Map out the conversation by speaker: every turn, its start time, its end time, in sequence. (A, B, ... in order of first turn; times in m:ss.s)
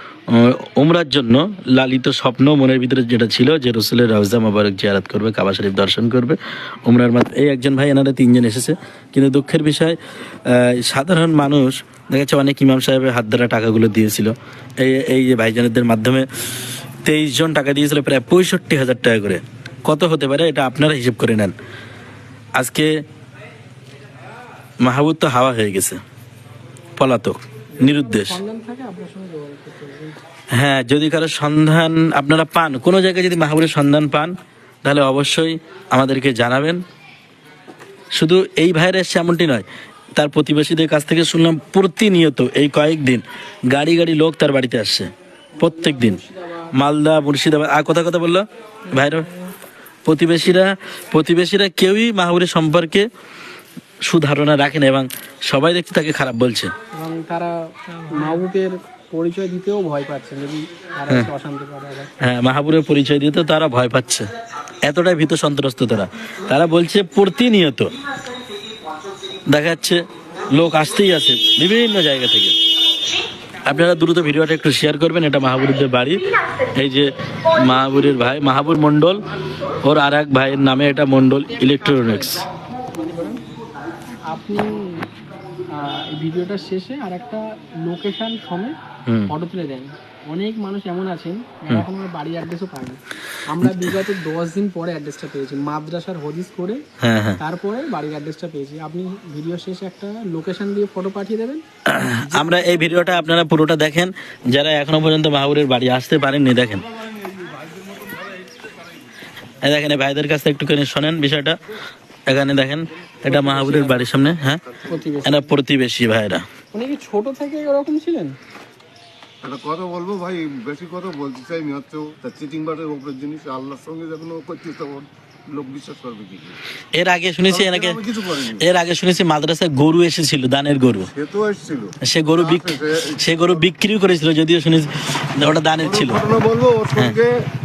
0:00.3-0:16.3 A
0:17.0-0:21.6 A
0:22.6-0:22.9 A
0:24.8-0:26.0 A
0:27.0-0:28.4 A
0:27.8-0:30.2 B
0:30.5-0:36.8 A
0:38.1-0:46.2 A
0:45.6-0:46.7 B
0:46.7-0:49.3 A
0:48.9-0:49.5 B
0:50.0-0:53.1 A
0:54.0-0:56.7 A
0:57.0-1:02.1 B
1:02.2-1:04.3 A
1:04.8-1:07.9 A
1:09.5-1:10.0 A
1:10.5-1:12.6 A
1:13.6-1:19.2 A
1:19.8-1:22.4 A
1:22.9-1:23.4 B
1:24.3-1:25.1 B
1:25.7-1:28.8 B
1:29.1-1:29.3 A
1:29.3-1:36.8 B
1:33.6-1:33.9 A
1:37.0-1:37.4 A
1:37.4-1:43.4 B
1:41.9-1:46.8 A
1:47.3-1:48.4 C
1:49.6-1:51.6 A
1:52.3-1:54.6 A
1:53.3-1:54.0 B
1:54.7-1:55.0 C
1:54.9-1:55.5 B
1:55.2-1:56.5 A
1:56.7-1:58.4 B
1:59.4-2:06.6 C
2:06.9-2:11.1 A
2:07.5-2:08.7 C
2:11.1-2:13.6 C
2:12.0-2:16.3 A
2:15.8-2:17.4 C